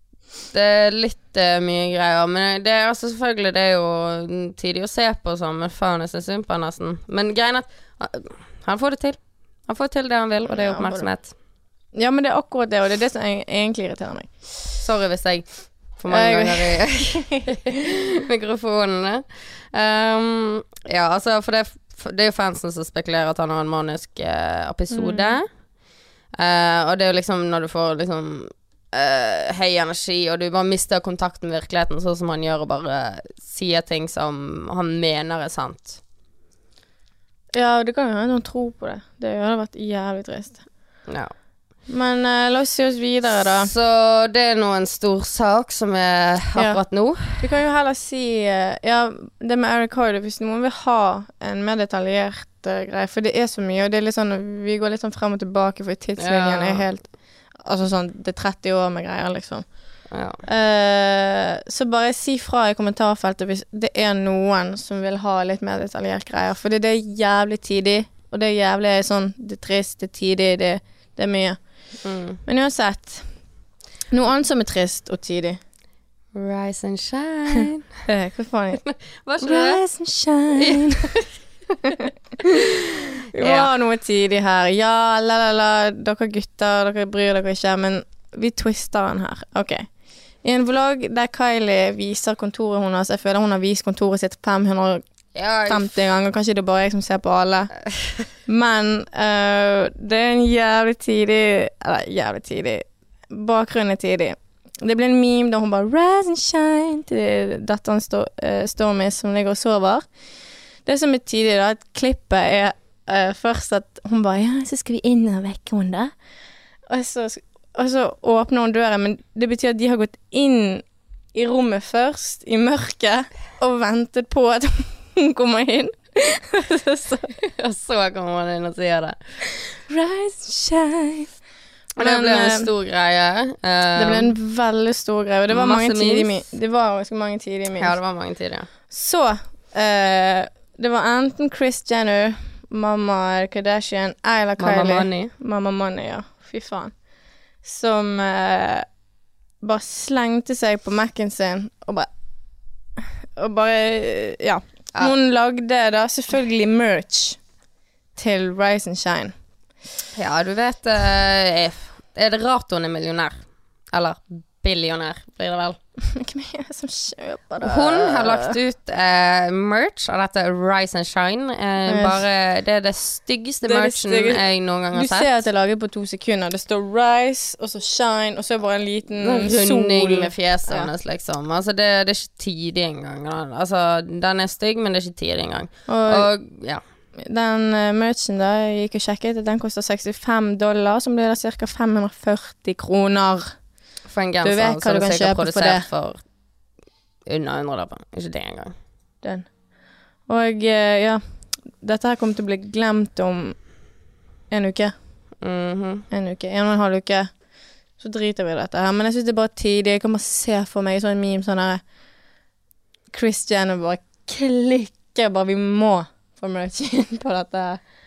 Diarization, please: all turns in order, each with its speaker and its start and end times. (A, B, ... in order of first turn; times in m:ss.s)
0:00.5-0:11.3 A
0:10.5-0:11.1 B
0:11.9-0:14.8 B
0:14.8-0:25.5 A
0:16.1-0:17.6 B
0:24.9-0:25.4 B
0:26.3-0:36.0 A
0:37.5-0:41.0 B
0:41.1-0:41.3 A
0:41.8-0:43.7 B
0:43.5-0:47.5 A
0:46.5-1:11.8 B
0:56.2-0:56.9 A
1:00.1-1:00.4 A
1:12.0-1:12.4 A
1:12.4-1:13.4 B
1:14.1-1:15.6 B
1:16.3-1:18.0 A
1:18.0-1:18.8 B
1:18.8-1:19.8 A
1:19.4-1:21.2 B
1:20.6-1:21.2 A
1:23.3-1:35.0 B
1:23.4-1:23.7 A
1:35.3-1:35.9 A
1:35.6-1:37.7 B
1:38.4-1:50.2 B
1:50.8-1:56.2 B
1:56.9-2:07.3 B
2:07.4-2:09.2 A
2:09.9-2:11.4 B
2:12.0-2:14.3 A
2:12.0-2:12.7 B
2:14.0-2:18.0 B
2:15.5-2:16.4 A
2:17.8-2:18.7 A
2:18.9-2:27.0 B
2:24.6-2:25.3 A
2:27.6-2:28.8 B
2:29.6-2:32.1 B
2:33.4-2:37.4 B
2:38.1-2:39.3 B
2:40.2-2:43.4 A
2:43.9-2:45.8 A
2:46.1-2:48.6 B
2:47.6-2:55.3 A
2:51.9-2:52.2 B
2:53.6-3:00.9 B
2:59.2-3:06.8 A
3:05.9-3:06.3 B
3:07.2-3:13.7 B
3:14.0-3:16.2 A
3:14.4-3:15.8 B
3:17.2-3:18.7 A
3:19.2-3:23.8 B
3:24.5-3:24.9 B
3:25.4-3:26.1 A
3:26.1-3:31.8 B
3:33.1-3:37.8 B